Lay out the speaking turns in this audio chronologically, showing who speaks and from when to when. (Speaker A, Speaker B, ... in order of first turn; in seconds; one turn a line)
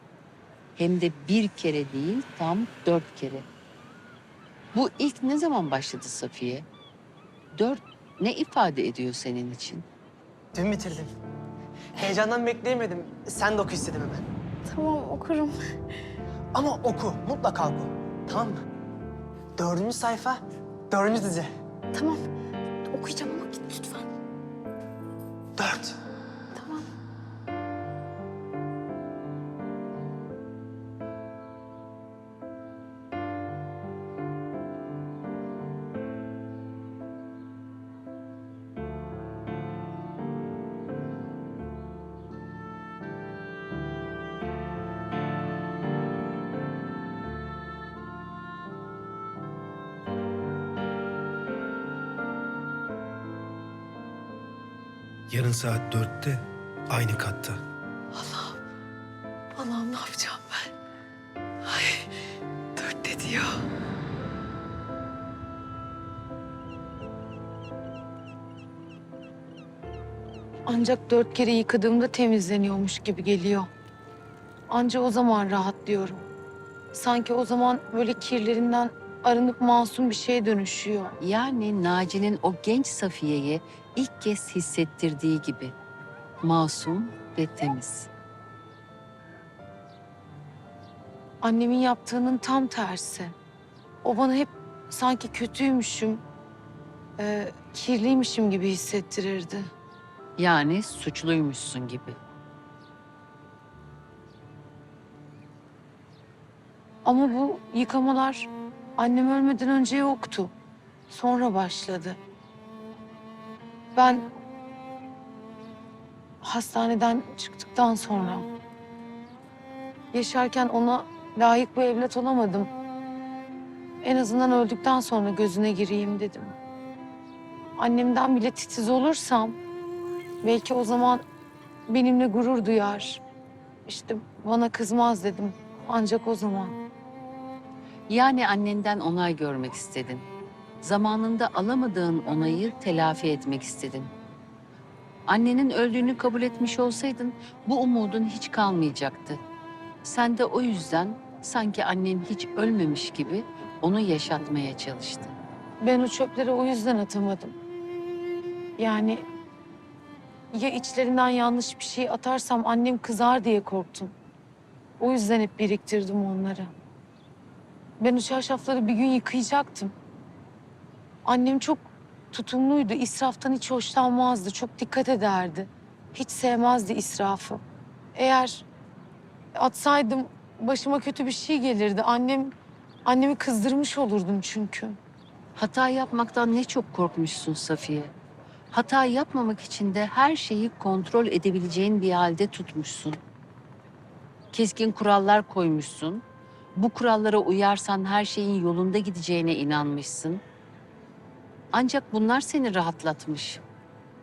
Speaker A: 0.8-3.5
Speaker A: 4.7-6.7
Speaker A: 7.5-9.8
Speaker B: 10.5-11.1
Speaker B: 11.9-14.2
Speaker C: 14.7-15.6
Speaker B: 16.5-18.6
Speaker B: 19.6-21.5
Speaker C: 21.9-22.2
Speaker C: 22.9-24.0
Speaker B: 25.6-25.9
Speaker C: 26.6-26.8
Speaker D: 55.3-57.6
Speaker C: 58.1-58.6
Speaker C: 59.5-60.7
Speaker C: 61.6-62.1
Speaker C: 62.8-63.6
Speaker C: 70.7-73.7
Speaker C: 74.7-76.2
Speaker C: 76.9-81.2
Speaker A: 81.2-85.7
Speaker A: 86.4-88.1
Speaker C: 91.4-93.3
Speaker C: 94.0-96.2
Speaker C: 97.2-99.7
Speaker A: 100.4-102.2
Speaker C: 107.0-110.5
Speaker C: 111.1-112.2
Speaker C: 113.9-114.2
Speaker C: 116.4-118.5
Speaker C: 120.1-122.7
Speaker C: 124.0-126.5
Speaker C: 127.8-129.6
Speaker C: 130.4-131.2
Speaker C: 131.9-133.2
Speaker C: 133.9-136.8
Speaker A: 138.1-140.2
Speaker A: 140.8-144.1
Speaker A: 145.3-149.4
Speaker A: 150.0-155.3
Speaker C: 155.8-157.6
Speaker C: 158.8-159.2
Speaker C: 160.5-164.1
Speaker C: 165.0-166.7
Speaker C: 168.0-169.9
Speaker C: 171.2-177.6
Speaker C: 178.1-178.7
Speaker C: 179.6-182.5
Speaker C: 183.0-185.0
Speaker A: 185.6-188.1
Speaker A: 188.7-193.2
Speaker A: 194.5-196.2
Speaker A: 196.7-200.4
Speaker A: 201.7-203.6